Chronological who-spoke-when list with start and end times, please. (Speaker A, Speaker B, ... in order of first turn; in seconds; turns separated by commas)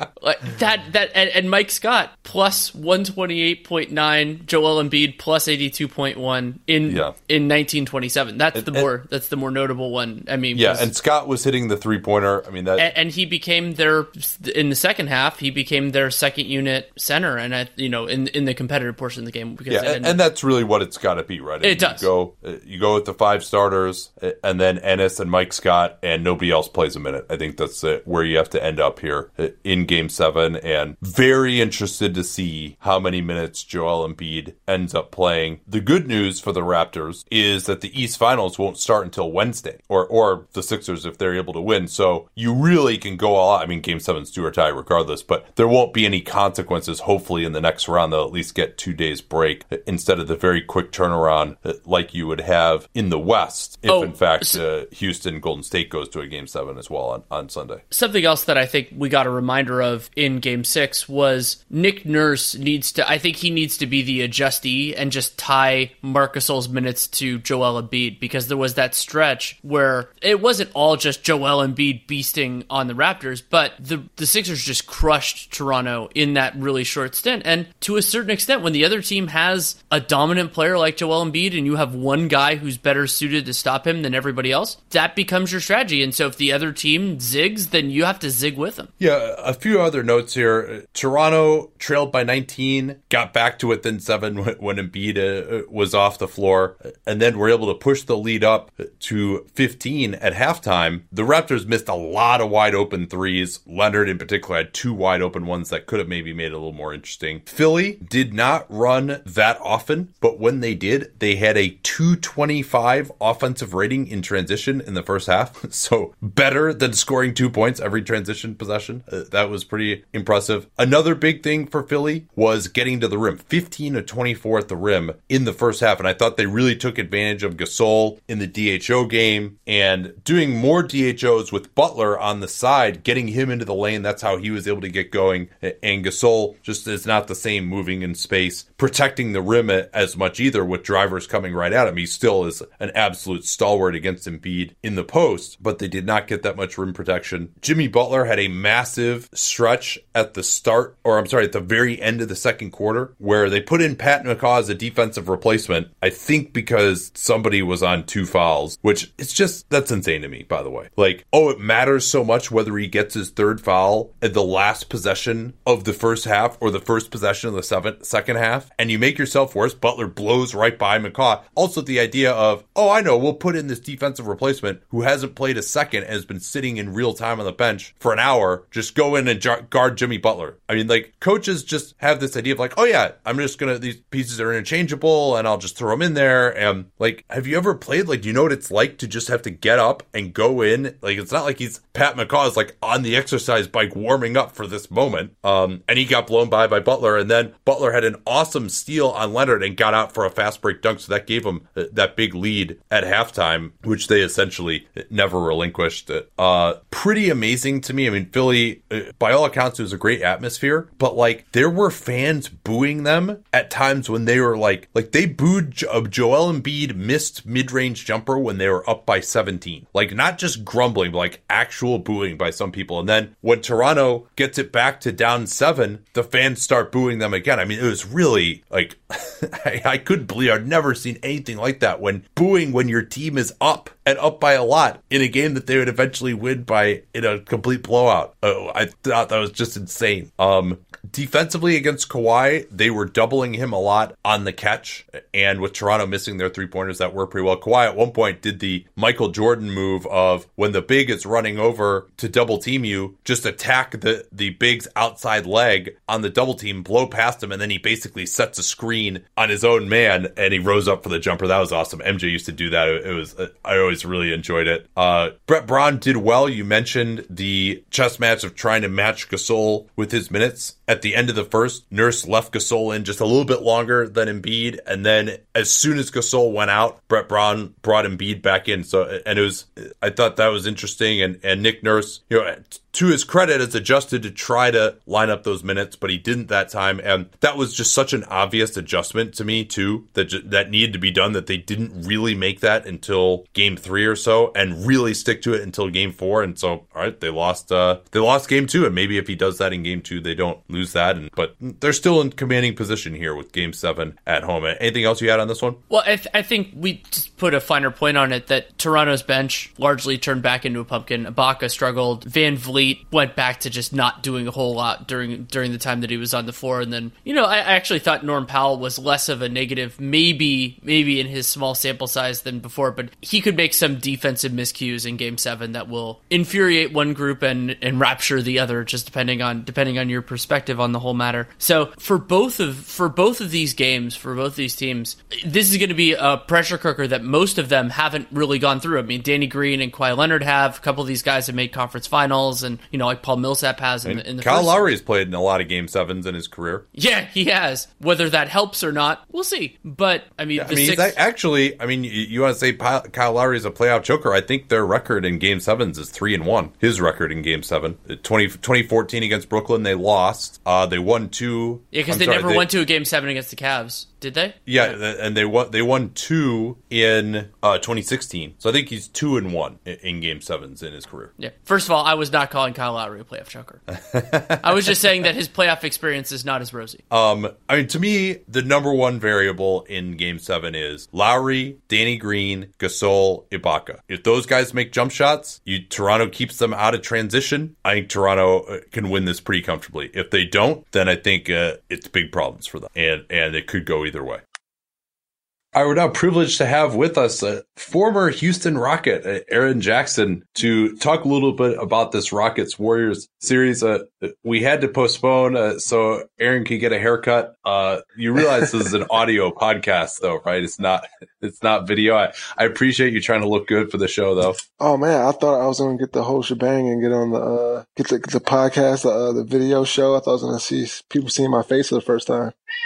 Speaker A: 0.2-10.9, Speaker B: 6.9-7.1, Speaker B: 8.5-8.9, Speaker B: 10.5-12.9, Speaker A: 12.8-20.2, Speaker B: 19.7-57.8, Speaker A: 21.6-22.1, Speaker A: 53.9-54.6, Speaker A: 57.9-88.9, Speaker B: 89.0-305.8, Speaker A: 305.9-344.9, Speaker B: 344.1-346.9, Speaker A: 346.9-351.2, Speaker B: 350.6-362.7, Speaker A: 361.9-364.9, Speaker B: 364.6-371.3, Speaker A: 371.4-373.8, Speaker B: 374.1-374.9, Speaker A: 374.6-377.0, Speaker B: 377.1-394.4, Speaker B: 395.7-414.6, Speaker C: 414.8-422.6